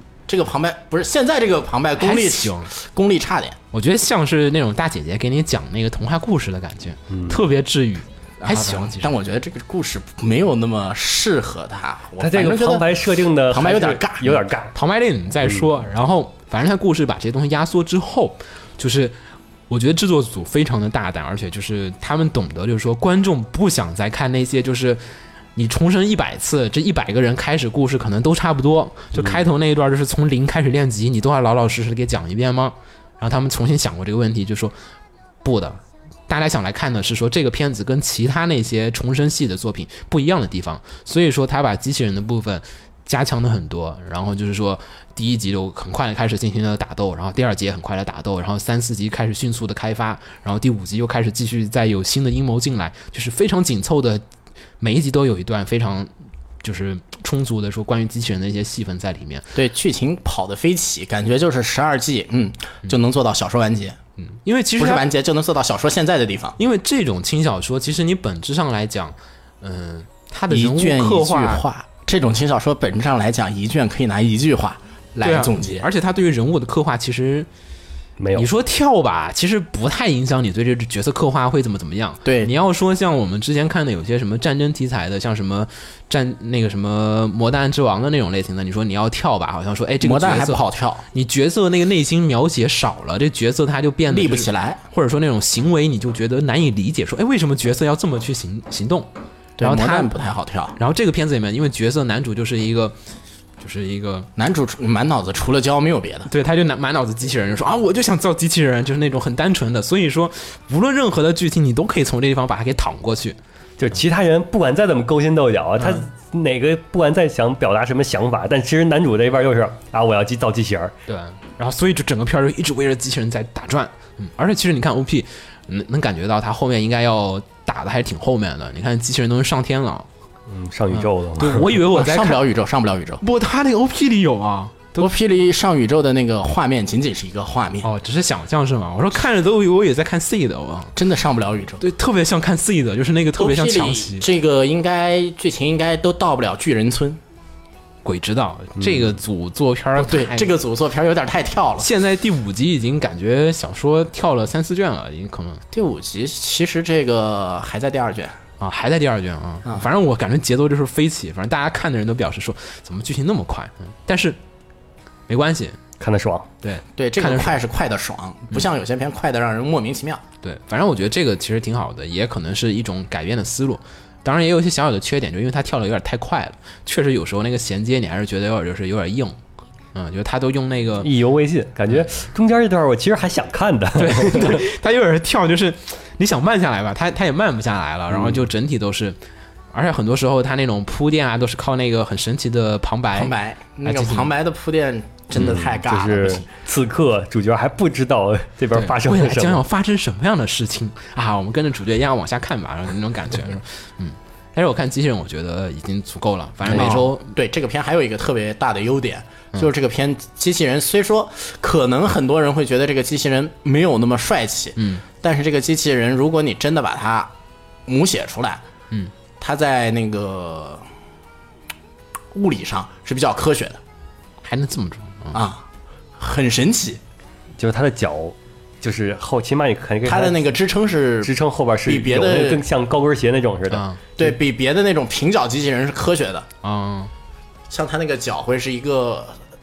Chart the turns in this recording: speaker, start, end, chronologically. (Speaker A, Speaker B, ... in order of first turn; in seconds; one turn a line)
Speaker A: 0.3-3.6
Speaker B: 2.0-2.7
Speaker B: 3.7-9.1
Speaker C: 7.1-7.4
Speaker A: 8.4-12.9
Speaker C: 12.2-14.7
Speaker A: 13.5-14.4
Speaker B: 14.7-19.2
Speaker B: 19.7-25.0
Speaker B: 25.6-34.7
Speaker B: 35.4-54.2
Speaker B: 54.8-56.1
Speaker B: 56.6-59.5
Speaker A: 59.5-64.0
Speaker B: 64.2-65.1
Speaker A: 64.8-66.6
Speaker B: 66.6-71.7
Speaker A: 70.5-75.9
Speaker B: 75.2-77.5
Speaker C: 78.2-78.5
Speaker B: 78.3-100.1
Speaker A: 82.2-82.5
Speaker A: 90.0-91.0
Speaker A: 94.1-94.8
Speaker A: 99.6-100.8
Speaker B: 100.8-103.0
Speaker B: 103.6-104.3
Speaker A: 104.4-106.3
Speaker B: 106.3-113.4
Speaker C: 113.8-121.0
Speaker B: 121.1-130.1
Speaker C: 130.5-131.8
Speaker B: 130.9-132.4
Speaker A: 131.9-133.2
Speaker B: 133.2-135.1
Speaker A: 135.0-137.9
Speaker B: 137.8-140.9
Speaker A: 141.0-141.8
Speaker B: 141.8-144.3
Speaker A: 143.4-147.2
Speaker B: 148.0-150.5
Speaker C: 148.8-149.0
Speaker A: 150.0-151.9
Speaker B: 151.8-155.6
Speaker A: 155.7-158.4
Speaker B: 158.6-164.4
Speaker B: 165.3-165.8
Speaker C: 166.0-166.5
Speaker B: 166.6-167.6
Speaker A: 167.0-170.2
Speaker B: 170.4-179.4
Speaker B: 179.9-181.1
Speaker C: 181.0-184.7
Speaker B: 184.0-189.2
Speaker C: 188.1-188.5
Speaker B: 189.7-193.3
Speaker A: 193.2-196.5
Speaker B: 193.8-194.3
Speaker C: 195.3-199.6
Speaker B: 198.7-207.3
Speaker A: 206.7-217.3
Speaker B: 214.8-215.0
Speaker A: 217.9-218.6
Speaker A: 219.4-220.8
Speaker A: 222.3-223.8
Speaker B: 224.4-225.4
Speaker A: 225.3-225.6
Speaker A: 226.2-227.0
Speaker C: 227.6-230.4
Speaker A: 230.1-231.3
Speaker C: 231.2-233.9
Speaker A: 231.8-232.6
Speaker B: 233.7-234.0
Speaker A: 234.2-236.5
Speaker B: 236.6-237.1
Speaker A: 237.7-239.4